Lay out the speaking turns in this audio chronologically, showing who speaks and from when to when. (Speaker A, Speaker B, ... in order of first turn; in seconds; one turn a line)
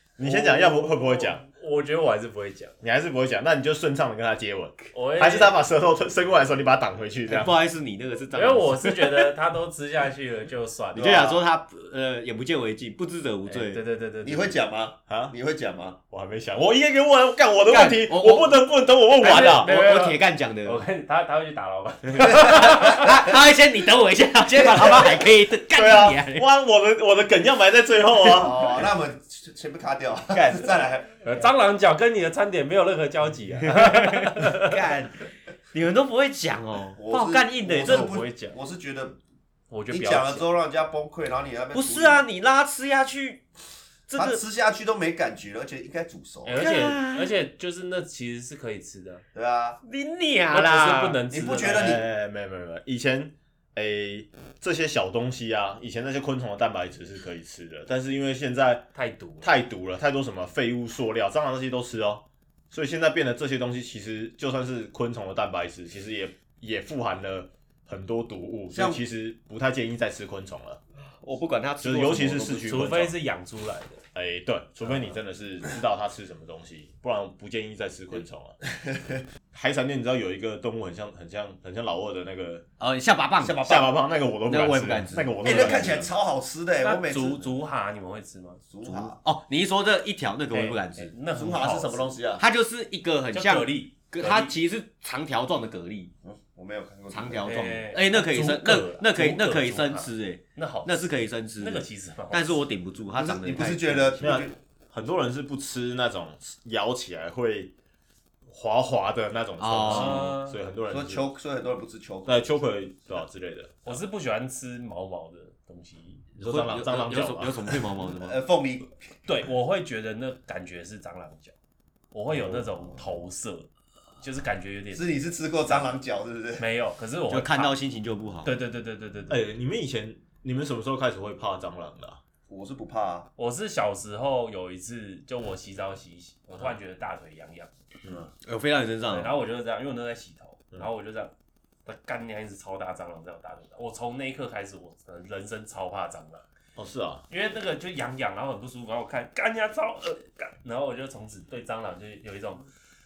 Speaker A: 0.2-1.4
Speaker B: 0.4-2.7
Speaker A: 2.8-7.5
Speaker B: 4.9-5.6
Speaker C: 7.3-9.3
Speaker B: 8.3-11.4
Speaker C: 10.9-13.8
Speaker B: 13.4-14.6
Speaker D: 14.2-16.0
Speaker A: 15.1-15.3
Speaker A: 16.1-19.7
Speaker C: 17.7-18.6
Speaker C: 19.2-20.8
Speaker B: 19.2-23.1
Speaker C: 22.1-26.4
Speaker D: 24.8-25.2
Speaker A: 25.7-28.7
Speaker D: 28.2-31.2
Speaker C: 30.3-30.7
Speaker B: 31.2-34.8
Speaker C: 33.6-35.2
Speaker C: 35.7-38.1
Speaker D: 37.0-39.2
Speaker B: 37.7-38.6
Speaker B: 39.7-40.5
Speaker D: 39.9-42.2
Speaker C: 41.7-43.5
Speaker C: 44.1-44.4
Speaker D: 44.1-46.6
Speaker B: 46.4-49.2
Speaker C: 46.6-47.3
Speaker D: 49.3-49.8
Speaker C: 49.8-51.2
Speaker B: 50.5-52.0
Speaker D: 51.3-52.0
Speaker A: 51.6-58.9
Speaker B: 58.9-59.5
Speaker A: 59.4-70.8
Speaker D: 68.7-69.0
Speaker C: 71.2-72.8
Speaker A: 71.8-73.1
Speaker B: 72.6-74.0
Speaker A: 74.1-78.5
Speaker D: 78.9-79.2
Speaker A: 79.5-82.7
Speaker C: 82.8-83.8
Speaker D: 83.4-83.8
Speaker A: 83.6-86.1
Speaker C: 84.5-85.9
Speaker D: 85.4-87.5
Speaker B: 86.8-88.6
Speaker D: 88.6-89.2
Speaker C: 88.8-91.1
Speaker B: 90.5-92.1
Speaker D: 91.3-92.4
Speaker C: 92.4-96.1
Speaker B: 93.3-94.5
Speaker D: 96.2-97.7
Speaker C: 97.1-104.3
Speaker B: 97.4-102.6
Speaker D: 103.1-104.5
Speaker A: 104.2-107.7
Speaker A: 108.5-111.2
Speaker C: 109.6-110.4
Speaker B: 109.8-110.6
Speaker D: 110.9-112.6
Speaker A: 112.2-114.0
Speaker B: 113.8-116.2
Speaker A: 116.3-117.8
Speaker C: 116.4-118.4
Speaker D: 118.2-118.9
Speaker B: 119.2-121.5
Speaker B: 122.1-123.7
Speaker A: 122.3-122.7
Speaker B: 124.2-125.9
Speaker D: 124.9-126.7
Speaker B: 126.6-127.8
Speaker C: 127.3-128.5
Speaker B: 128.4-129.4
Speaker A: 129.3-132.2
Speaker D: 132.5-133.3
Speaker B: 133.4-137.7
Speaker C: 138.4-139.4
Speaker B: 139.1-141.3
Speaker B: 141.8-146.4
Speaker A: 146.8-147.2
Speaker B: 147.3-152.7